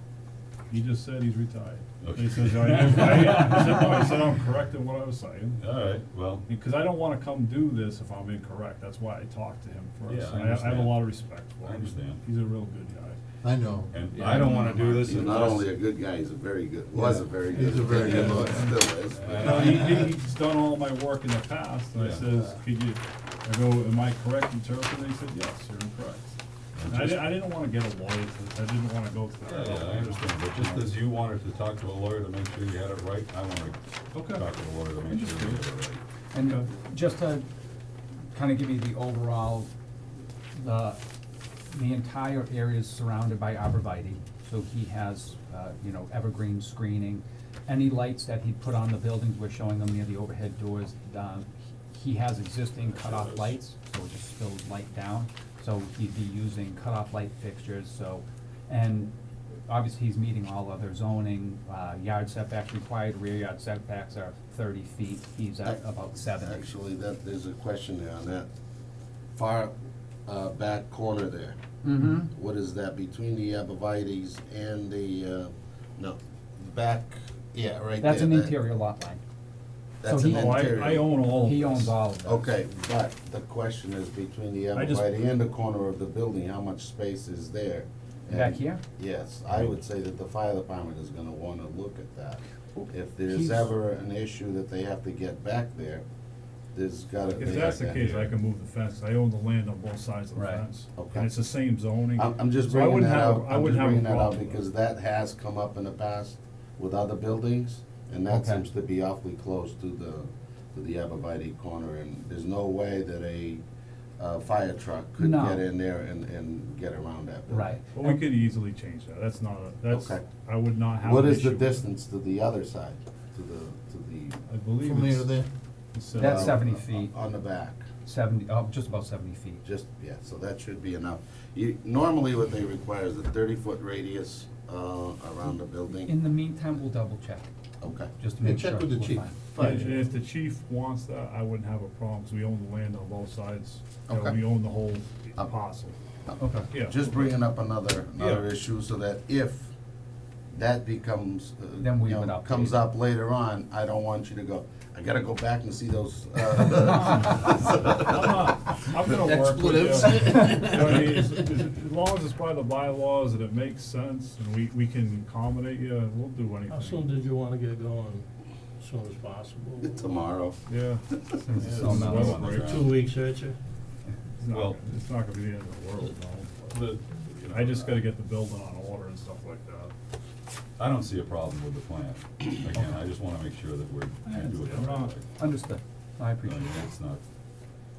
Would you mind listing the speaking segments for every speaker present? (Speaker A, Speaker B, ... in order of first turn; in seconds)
Speaker A: 0.7-5.6, 6.5-13.2, 19.4-26.4, 26.9-30.8, 34.1-34.4, 35.1-35.5, 80.4-82.0, 84.7-85.0, 97.4-104.6, 117.9-121.8, 124.5-125.3, 125.9-126.6, 139.6-145.9, 146.7-147.3, 158.0-167.2, 170.7-171.0, 171.6-172.8, 174.4-179.9, 184.3-185.1
Speaker B: 2.0-4.2, 5.6-6.5, 10.1-12.2, 13.9-15.7, 17.9-20.0, 21.9-22.4, 26.8-27.4, 29.4-36.0, 97.4-98.3, 171.5-173.0, 174.5-174.8, 177.4-178.1, 180.8-185.3, 186.4-187.2
Speaker C: 3.2-3.5, 53.0-53.4, 159.3-161.1, 166.7-168.2, 168.8-170.2, 171.6-173.6, 176.1-176.5
Speaker D: 13.4-14.0, 16.9-18.8, 19.6-20.1, 124.8-125.5, 138.4-140.2, 159.1-161.4
Speaker E: 14.8-19.6, 65.6-68.5, 69.3-69.7, 70.3-71.6, 72.2-78.7, 80.0-81.1, 82.2-96.0, 96.7-98.0, 101.0-101.3, 102.1-113.6, 114.2-117.8, 119.9-120.3, 121.0-124.4, 126.2-127.9, 129.6-136.1, 137.8-138.1, 144.1-144.4, 146.3-149.7, 150.5-158.5, 169.8-170.6
Speaker F: 36.3-37.5, 38.3-39.7, 40.5-41.0, 41.7-59.1, 59.7-66.7, 71.8-72.3, 78.0-79.2, 80.0-82.5, 88.3-88.8, 92.8-93.7, 100.3-100.6, 108.3-108.6, 115.2-115.6, 117.5-118.2, 126.2-127.1, 128.0-129.6, 136.0-137.5, 138.2-139.7, 146.4-146.7, 151.8-152.8, 171.4-172.6, 185.4-186.7